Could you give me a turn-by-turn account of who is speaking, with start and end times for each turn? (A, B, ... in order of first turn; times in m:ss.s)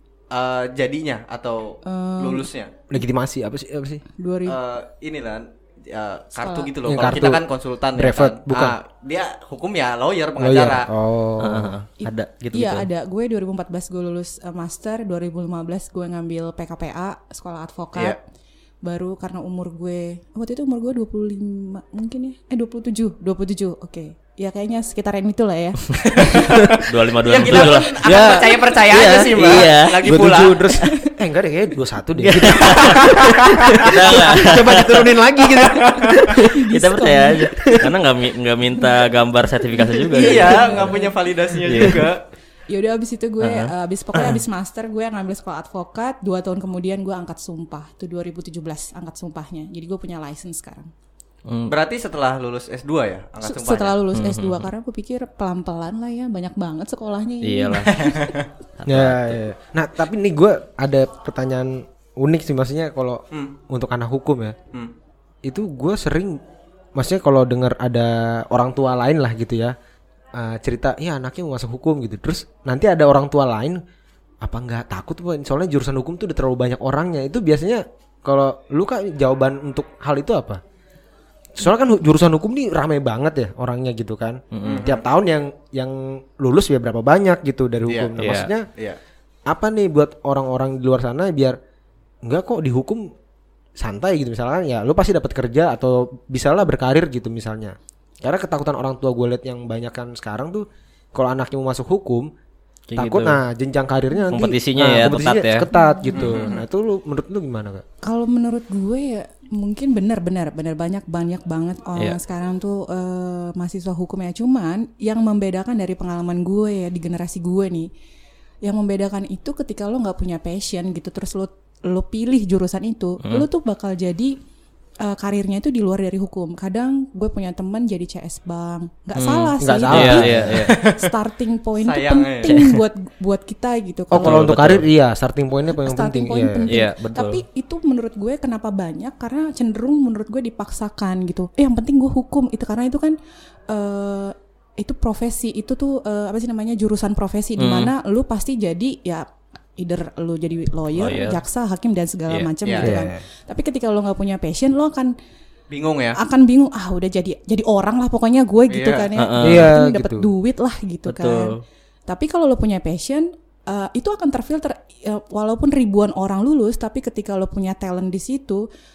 0:00.3-0:02.7 A
0:01.8-0:02.4 B
0:02.9-0:04.0 C
0:04.2-0:04.6 B
0:04.4-0:10.9 A
0:06.4-0:06.7 B
0:06.8-0:08.7 C
0:10.4-0:11.8 C
0:11.4-0:12.9 D
0:12.0-0:18.2 B
0:18.8-0:26.6 B
0:26.1-0:30.7 A
0:26.8-0:28.0 D
0:27.5-0:28.6 B
0:28.0-0:36.5 C
0:28.9-0:30.0 D
0:30.8-0:31.1 B
0:32.2-0:35.1 D
0:32.6-0:33.7 A
0:35.5-0:36.2 A
0:36.4-0:37.5 B
0:36.7-0:41.0 D
0:40.0-0:41.1 B
0:40.1-0:42.2 A
0:41.6-0:42.1 D
0:42.7-0:50.9 B
0:43.4-0:44.3 D
0:51.5-0:51.7 D
0:51.7-0:54.0 A
0:53.4-0:58.3 B
0:54.1-0:54.7 D
0:57.4-0:58.0 D
0:57.9-0:58.5 A
0:58.8-0:59.4 D
0:58.9-1:04.6 C
1:05.4-1:06.4 C
1:07.0-1:09.7 C
1:10.3-1:13.8 C
1:14.4-1:20.6 C
1:21.5-1:28.6 C
1:24.5-1:24.9 D
1:24.6-1:25.0 A
1:27.9-1:28.2 A
1:28.2-1:28.5 D
1:29.5-1:31.6 C
1:32.2-1:33.1 C
1:33.8-1:42.3 C
1:42.9-1:43.4 D
1:43.0-1:47.8 C
1:44.3-1:45.6 D
1:45.7-1:46.3 B
1:46.1-1:46.6 A
1:48.0-1:57.9 B
1:58.6-2:04.4 B
2:05.0-2:14.5 B
2:09.1-2:10.8 D
2:09.6-2:10.6 C
2:10.7-2:11.0 A
2:11.8-2:12.6 A
2:14.1-2:16.7 C
2:14.1-2:14.8 D
2:15.7-2:23.2 B
2:16.7-2:17.4 D
2:23.7-2:29.2 B
2:27.6-2:27.9 D
2:29.8-2:35.1 B
2:31.0-2:31.4 D
2:32.6-2:33.0 A
2:32.8-2:33.2 C
2:35.7-2:36.2 A
2:36.1-2:41.5 B
2:38.7-2:39.1 A
2:39.2-2:39.7 D
2:39.4-2:40.3 C
2:41.0-2:41.6 D
2:42.1-2:48.6 B